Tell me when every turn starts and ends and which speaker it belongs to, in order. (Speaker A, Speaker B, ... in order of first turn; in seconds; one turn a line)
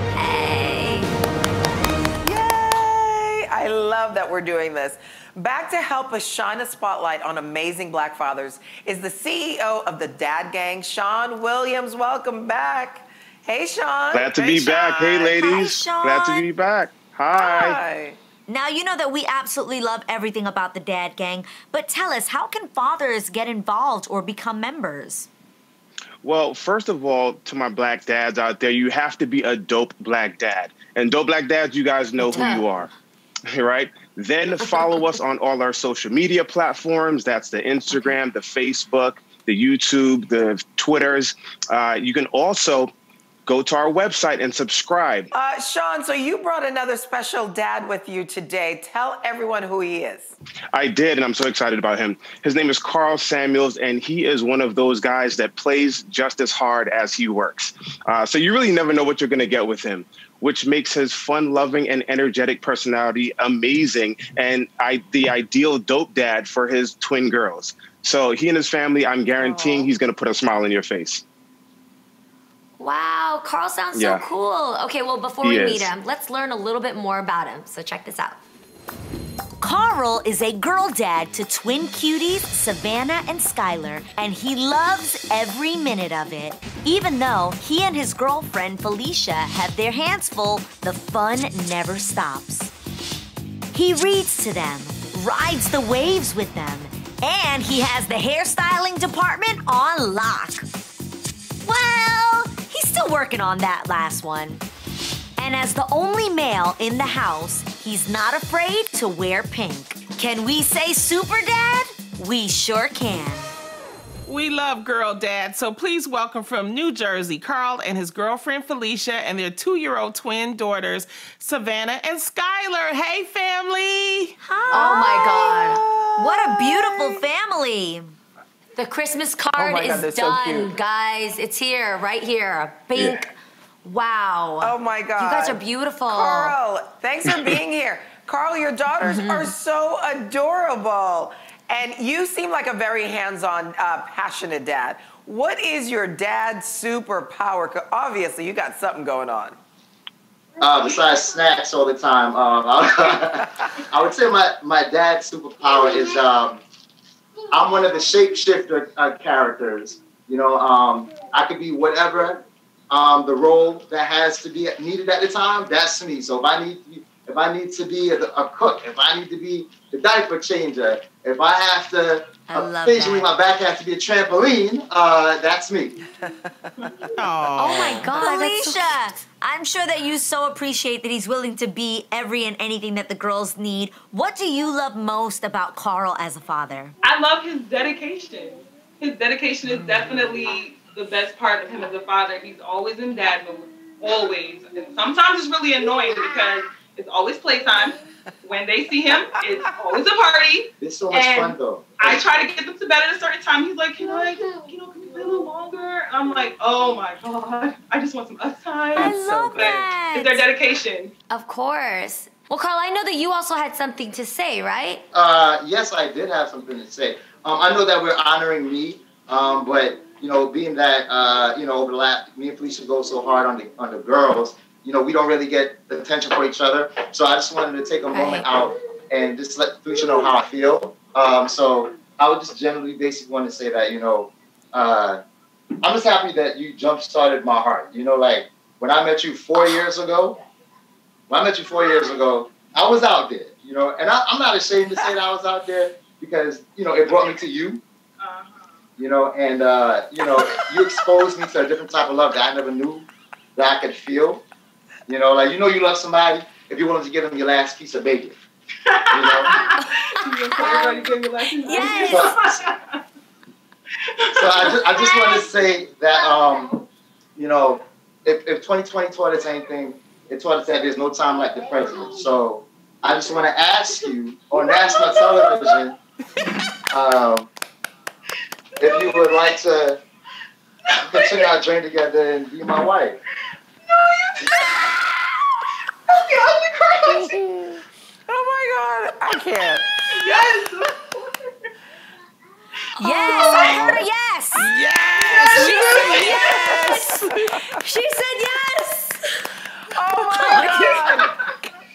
Speaker A: 0.2-1.1
Speaker B: 2.2-14.7
Speaker C: 14.1-17.8
Speaker D: 14.6-15.3
Speaker E: 15.3-16.5
Speaker B: 17.3-18.2
Speaker E: 18.5-25.3
Speaker C: 26.2-32.9
Speaker A: 32.3-32.7
Speaker C: 33.5-42.9
Speaker C: 43.5-45.3
Speaker B: 45.3-50.4
Speaker C: 50.7-71.2
Speaker B: 69.4-69.8
Speaker A: 72.8-78.4
Speaker C: 73.9-74.3
Speaker C: 75.4-75.9
Speaker E: 79.6-92.7
Speaker E: 93.7-100.7
Speaker E: 101.6-104.6
Speaker E: 105.4-113.5
Speaker D: 114.3-124.3
Speaker E: 124.5-125.3
Speaker A: 124.7-125.8
Speaker B: 124.8-127.2
Speaker E: 126.2-128.1
Speaker A: 128.8-133.3
Speaker B: 129.6-130.8
Speaker C: 132.9-133.2
Speaker A: 133.8-136.6
Speaker B: 134.6-149.6
Speaker A: 139.0-139.5
Speaker F: 150.6-156.6
Speaker F: 157.5-176.0
Speaker E: 172.5-173.3
Speaker B: 176.3-176.9
Speaker D: 177.2-178.2
Speaker A: 177.6-178.9
Speaker E: 178.2-186.9
Speaker G: 187.0-211.1
Speaker B: 189.7-190.2
Speaker B: 199.1-199.9
Speaker F: 200.8-202.4
Speaker B: 209.0-209.9
Speaker E: 209.0-210.4
Speaker A: 209.0-210.4
Speaker A: 211.3-215.0
Speaker F: 215.1-235.2
Speaker A: 228.1-228.5
Speaker F: 235.8-240.4
Speaker F: 241.3-247.8
Speaker G: 248.2-248.7
Speaker F: 249.0-254.4
Speaker F: 255.1-258.4
Speaker G: 258.9-259.7
Speaker F: 259.1-259.6
Speaker G: 260.2-262.8
Speaker A: 260.5-261.0
Speaker E: 260.5-261.1
Speaker E: 261.6-262.3
Speaker A: 261.6-262.2
Speaker F: 262.0-262.4
Speaker G: 264.4-265.5
Speaker F: 264.4-266.8
Speaker F: 267.4-276.0
Speaker G: 274.6-275.5
Speaker F: 276.9-277.5
Speaker F: 278.8-280.0
Speaker G: 278.9-279.4
Speaker F: 281.0-283.2
Speaker G: 283.9-284.6
Speaker G: 286.1-287.3
Speaker B: 286.9-290.6
Speaker G: 290.1-290.9
Speaker E: 293.0-294.7
Speaker G: 293.0-293.8
Speaker A: 293.3-293.6
Speaker B: 293.6-294.0
Speaker D: 294.6-297.2
Speaker G: 295.5-296.6
Speaker A: 295.5-297.2
Speaker E: 295.6-295.9
Speaker B: 296.4-297.8
Speaker A: 297.8-299.2
Speaker B: 299.9-301.3
Speaker A: 300.4-300.9
Speaker G: 300.6-301.2